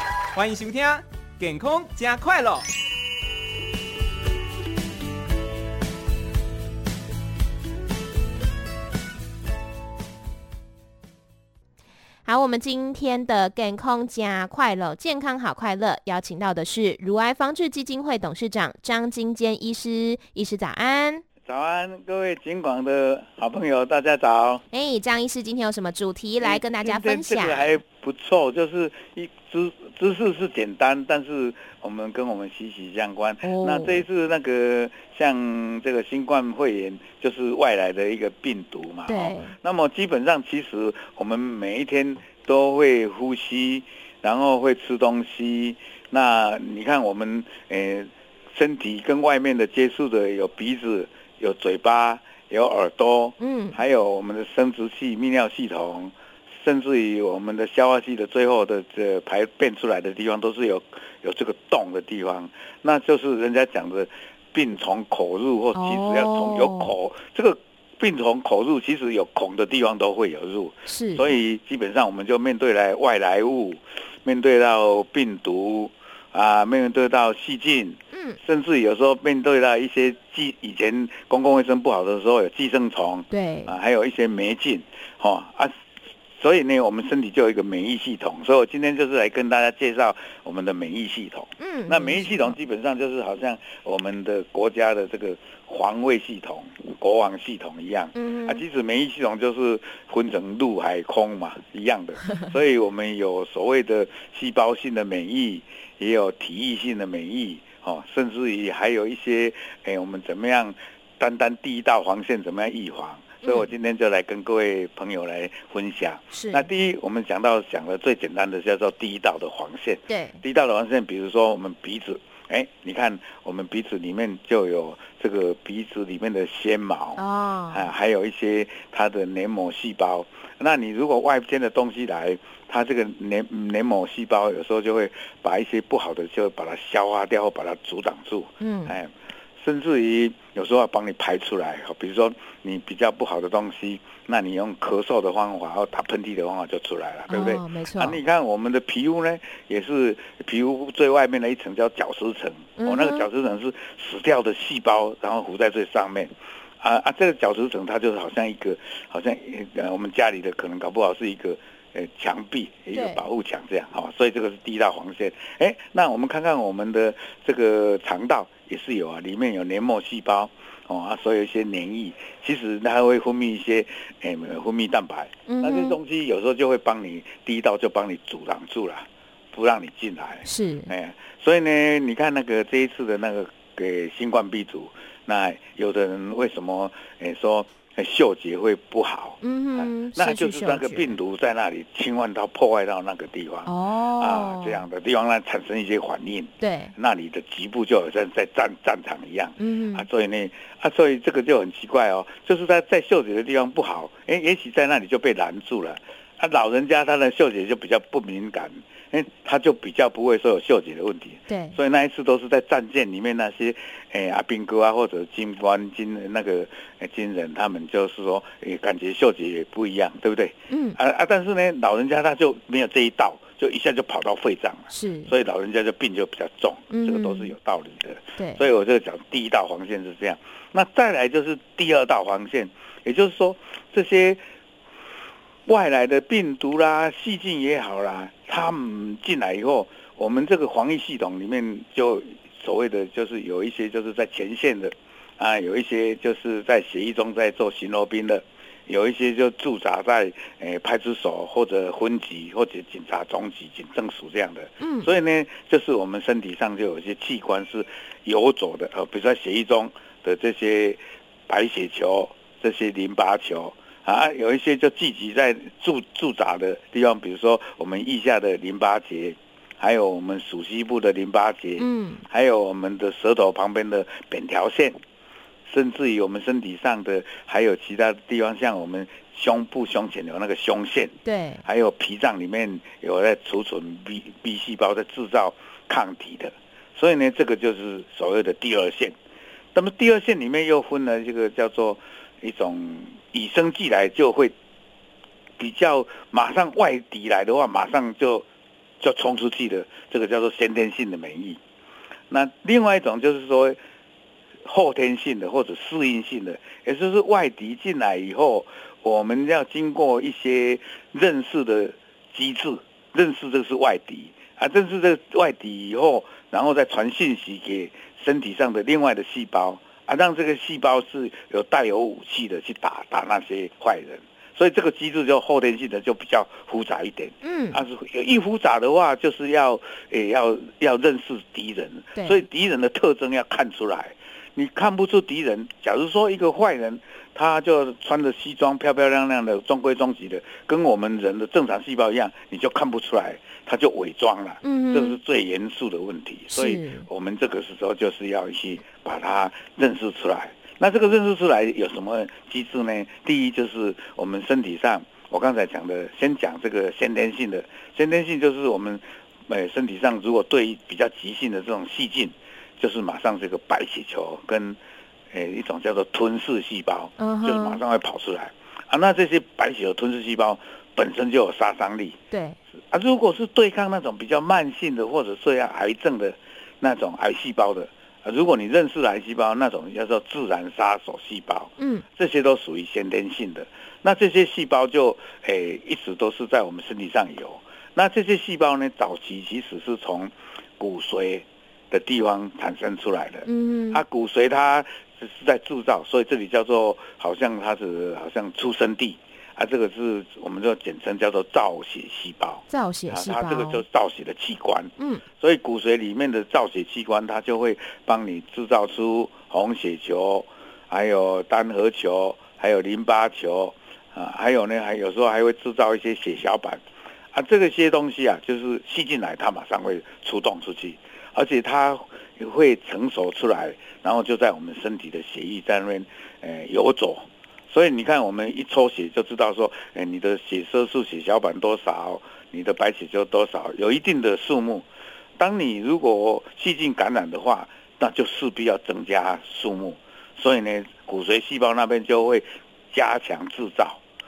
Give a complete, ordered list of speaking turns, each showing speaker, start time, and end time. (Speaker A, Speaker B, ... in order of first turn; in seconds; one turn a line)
Speaker A: 0.3-2.7
Speaker B: 12.3-21.2
Speaker C: 21.5-24.6
Speaker B: 24.7-27.7
Speaker C: 26.4-85.7
Speaker B: 33.4-34.0
Speaker B: 39.1-39.5
Speaker B: 53.4-53.8
Speaker B: 65.7-66.9
Speaker B: 70.8-71.3
Speaker B: 78.1-78.4
Speaker B: 83.3-83.8
Speaker C: 86.4-234.4
Speaker B: 91.6-92.6
Speaker B: 98.2-98.6
Speaker B: 113.4-113.7
Speaker B: 116.3-116.7
Speaker B: 120.1-120.4
Speaker B: 127.2-127.9
Speaker B: 138.6-139.0
Speaker B: 147.3-148.2
Speaker B: 152.8-153.3
Speaker B: 162.9-163.3
Speaker B: 175.5-176.0
Speaker B: 180.4-180.9
Speaker B: 189.4-191.2
Speaker B: 193.7-194.8
Speaker B: 196.6-196.9
Speaker B: 199.6-200.1
Speaker B: 211.5-211.8
Speaker B: 220.7-221.0
Speaker B: 224.9-225.3
Speaker B: 226.9-227.6
Speaker B: 228.4-228.6
Speaker C: 235.7-275.0
Speaker B: 254.8-255.1
Speaker B: 271.8-272.3
Speaker C: 275.7-289.2
Speaker B: 281.2-281.6
Speaker C: 289.7-294.6
Speaker C: 295.6-298.5
Speaker C: 299.0-301.6
Speaker C: 302.3-303.8
Speaker C: 304.6-364.8
Speaker B: 327.4-327.8
Speaker B: 332.2-332.4
Speaker B: 344.6-345.2
Speaker B: 346.5-347.1
Speaker C: 365.3-372.2
Speaker B: 367.2-367.8
Speaker B: 372.3-372.6
Speaker C: 372.8-416.8
Speaker B: 381.8-382.1
Speaker B: 393.4-394.0
Speaker B: 402.7-403.8
Speaker B: 405.0-405.2
Speaker C: 417.3-434.9
Speaker C: 435.4-444.0